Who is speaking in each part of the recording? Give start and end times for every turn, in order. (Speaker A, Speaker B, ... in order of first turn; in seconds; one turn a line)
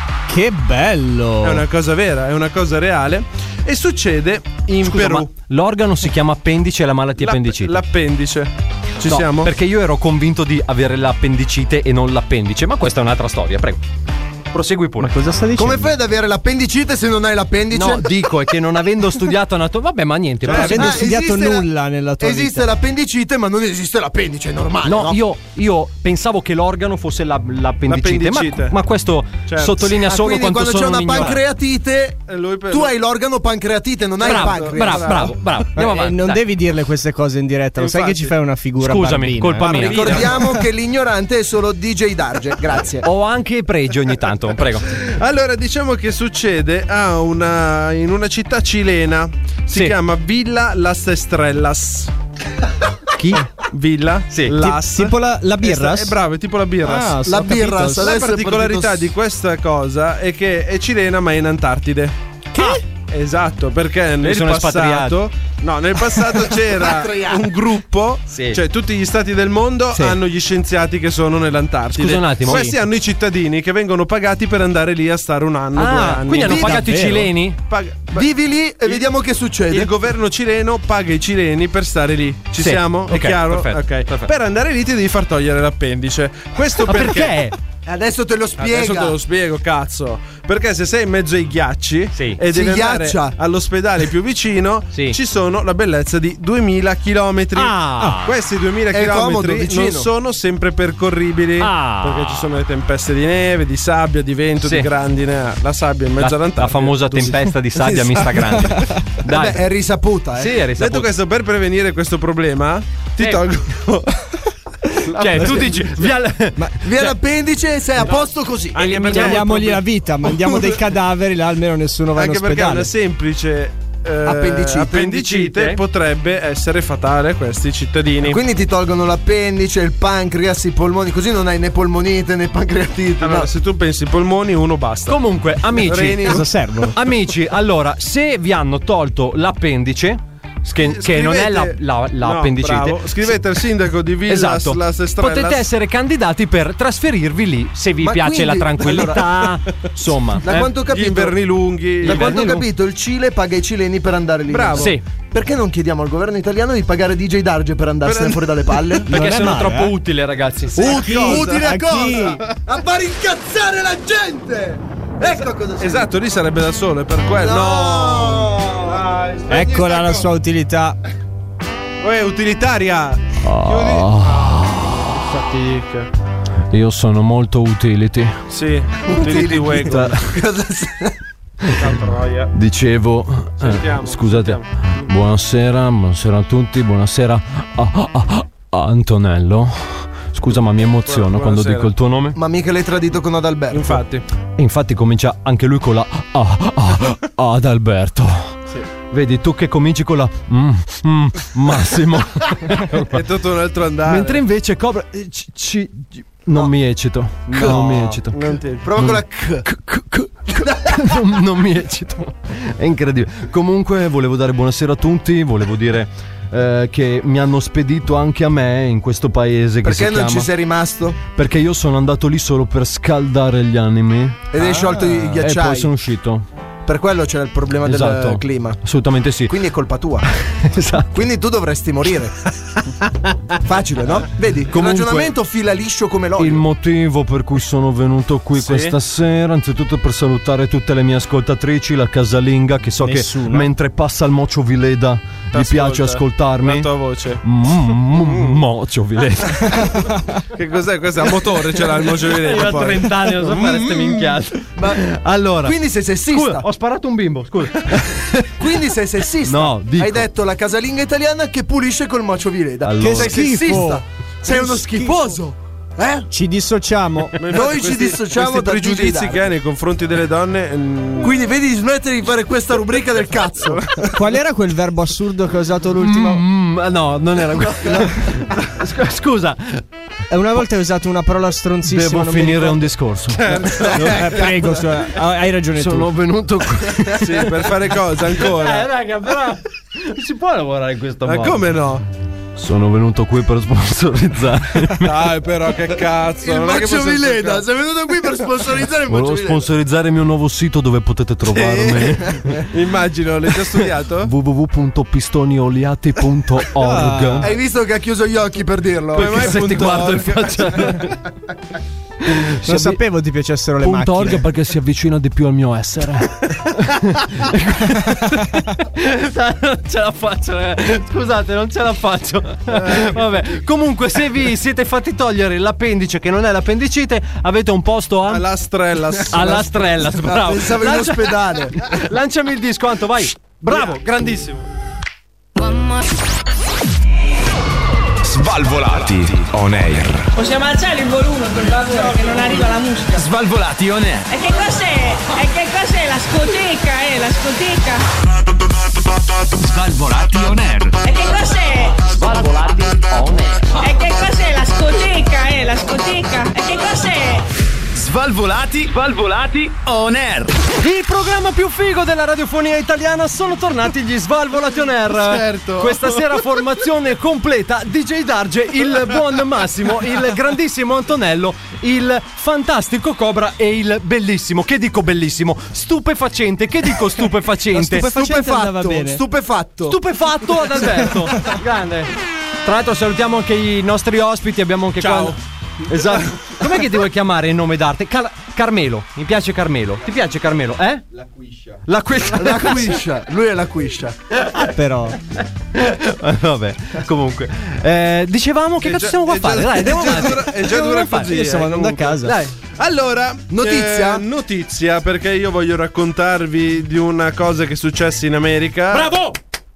Speaker A: 0.3-1.6
Speaker B: 1.4-5.3
Speaker C: 4.8-7.8
Speaker B: 7.2-9.5
Speaker C: 9.1-13.8
Speaker C: 14.5-15.1
Speaker A: 15.0-15.9
Speaker D: 15.6-18.3
Speaker C: 17.7-21.0
Speaker B: 20.5-20.9
Speaker A: 20.5-22.7
Speaker D: 20.7-25.2
Speaker C: 24.8-31.4
Speaker B: 27.9-28.8
Speaker B: 29.5-29.8
Speaker D: 29.9-35.3
Speaker B: 32.3-33.0
Speaker C: 34.2-36.4
Speaker B: 34.2-35.3
Speaker A: 35.8-39.9
Speaker B: 37.8-38.4
Speaker C: 38.8-40.2
Speaker B: 39.6-40.4
Speaker D: 39.7-43.0
Speaker C: 43.0-44.9
Speaker B: 44.9-52.1
Speaker C: 53.1-53.5
Speaker B: 53.7-57.2
Speaker A: 54.5-56.1
Speaker A: 56.8-58.1
Speaker D: 57.2-59.1
Speaker B: 58.0-62.2
Speaker A: 62.5-62.8
Speaker B: 63.1-77.0
Speaker C: 64.2-65.2
Speaker D: 66.7-67.5
Speaker C: 68.3-68.6
Speaker C: 72.0-72.7
Speaker A: 72.5-72.8
Speaker C: 75.8-77.6
Speaker A: 76.5-77.3
Speaker D: 76.5-76.8
Speaker B: 77.6-78.3
Speaker D: 78.1-79.9
Speaker B: 79.7-87.4
Speaker C: 82.6-84.3
Speaker C: 86.8-87.6
Speaker D: 87.9-89.2
Speaker B: 88.6-108.7
Speaker C: 92.1-92.4
Speaker D: 92.5-93.3
Speaker C: 97.5-98.3
Speaker D: 98.9-100.1
Speaker C: 101.6-102.5
Speaker C: 104.6-104.9
Speaker C: 106.2-109.6
Speaker D: 109.3-110.6
Speaker C: 110.4-111.1
Speaker B: 110.8-114.4
Speaker B: 115.1-116.1
Speaker C: 115.2-117.2
Speaker D: 116.8-119.3
Speaker B: 118.1-119.8
Speaker A: 119.1-122.9
Speaker B: 122.2-128.4
Speaker D: 124.2-125.2
Speaker C: 125.0-125.8
Speaker D: 128.2-133.5
Speaker B: 133.2-136.5
Speaker C: 135.1-143.3
Speaker A: 136.2-136.9
Speaker B: 140.8-145.7
Speaker C: 144.3-150.7
Speaker D: 148.0-149.3
Speaker D: 150.4-151.4
Speaker B: 150.5-152.4
Speaker D: 152.0-159.1
Speaker C: 152.0-152.7
Speaker B: 154.5-154.9
Speaker C: 154.8-155.0
Speaker B: 158.0-159.0
Speaker A: 159.1-160.0
Speaker C: 159.1-161.2
Speaker B: 160.8-162.6
Speaker D: 160.8-166.1
Speaker A: 160.8-162.4
Speaker B: 165.8-170.3
Speaker D: 167.3-169.0
Speaker A: 169.5-171.0
Speaker B: 172.0-176.1
Speaker C: 173.4-175.1
Speaker C: 176.7-178.4
Speaker B: 178.5-180.3
Speaker D: 179.1-181.2
Speaker C: 179.9-180.2
Speaker B: 181.7-182.5
Speaker C: 182.5-192.4
Speaker B: 183.6-185.1
Speaker B: 191.1-191.9
Speaker D: 192.4-194.0
Speaker B: 193.7-194.2
Speaker C: 194.6-198.6
Speaker C: 199.1-203.2
Speaker B: 202.9-204.4
Speaker C: 204.1-220.5
Speaker D: 207.5-208.2
Speaker B: 207.6-208.9
Speaker D: 208.8-209.7
Speaker D: 210.5-211.2
Speaker D: 219.8-221.2
Speaker C: 221.3-224.5
Speaker D: 224.5-225.9
Speaker A: 224.6-225.0
Speaker C: 225.4-226.5
Speaker D: 226.9-228.8
Speaker C: 227.8-229.6
Speaker D: 229.5-230.3
Speaker C: 230.5-231.2
Speaker D: 231.1-232.4
Speaker D: 233.6-236.6
Speaker C: 234.7-235.3
Speaker C: 236.4-246.9
Speaker B: 238.6-238.9
Speaker A: 243.0-243.7
Speaker B: 245.5-247.4
Speaker C: 247.4-249.8
Speaker B: 248.1-248.6
Speaker B: 250.5-254.1
Speaker C: 252.3-255.8
Speaker D: 254.8-255.0
Speaker D: 255.6-256.6
Speaker C: 256.3-258.6
Speaker D: 258.6-266.3
Speaker C: 259.4-260.3
Speaker C: 262.8-263.8
Speaker A: 263.0-265.3
Speaker A: 266.3-267.4
Speaker B: 267.4-271.3
Speaker D: 267.5-269.4
Speaker D: 271.2-273.9
Speaker B: 273.6-274.1
Speaker A: 274.1-276.4
Speaker C: 276.0-279.8
Speaker A: 280.3-282.9
Speaker C: 281.9-284.1
Speaker B: 283.3-284.5
Speaker A: 283.9-286.1
Speaker C: 285.8-287.6
Speaker B: 287.2-288.9
Speaker C: 288.4-291.6
Speaker B: 291.2-292.0
Speaker C: 292.6-295.1
Speaker B: 295.0-297.7
Speaker D: 296.4-299.7
Speaker C: 299.1-302.6
Speaker B: 301.5-304.3
Speaker C: 304.2-307.5
Speaker B: 306.8-307.4
Speaker A: 307.0-307.4
Speaker D: 307.4-309.9
Speaker B: 309.1-311.1
Speaker C: 309.1-311.2
Speaker C: 312.2-313.0
Speaker A: 312.6-314.4
Speaker C: 313.8-328.5
Speaker B: 322.7-323.2
Speaker B: 328.3-329.6
Speaker C: 329.3-334.6
Speaker D: 329.3-331.8
Speaker B: 333.7-333.9
Speaker E: 338.2-340.3
Speaker F: 340.3-343.2
Speaker E: 343.1-344.3
Speaker F: 344.3-348.1
Speaker E: 349.6-351.0
Speaker F: 351.0-352.1
Speaker C: 352.1-353.6
Speaker F: 353.8-357.4
Speaker E: 357.9-360.6
Speaker C: 360.8-378.1
Speaker B: 365.1-366.2
Speaker A: 377.8-379.2
Speaker D: 377.8-380.0
Speaker C: 379.9-382.1
Speaker C: 382.6-391.1
Speaker B: 385.0-385.4
Speaker C: 391.9-393.0
Speaker D: 392.3-394.2
Speaker A: 394.6-395.2
Speaker C: 395.7-401.3
Speaker B: 398.8-409.2
Speaker A: 401.1-402.4
Speaker C: 402.2-402.5
Speaker D: 403.5-404.2
Speaker C: 408.9-409.4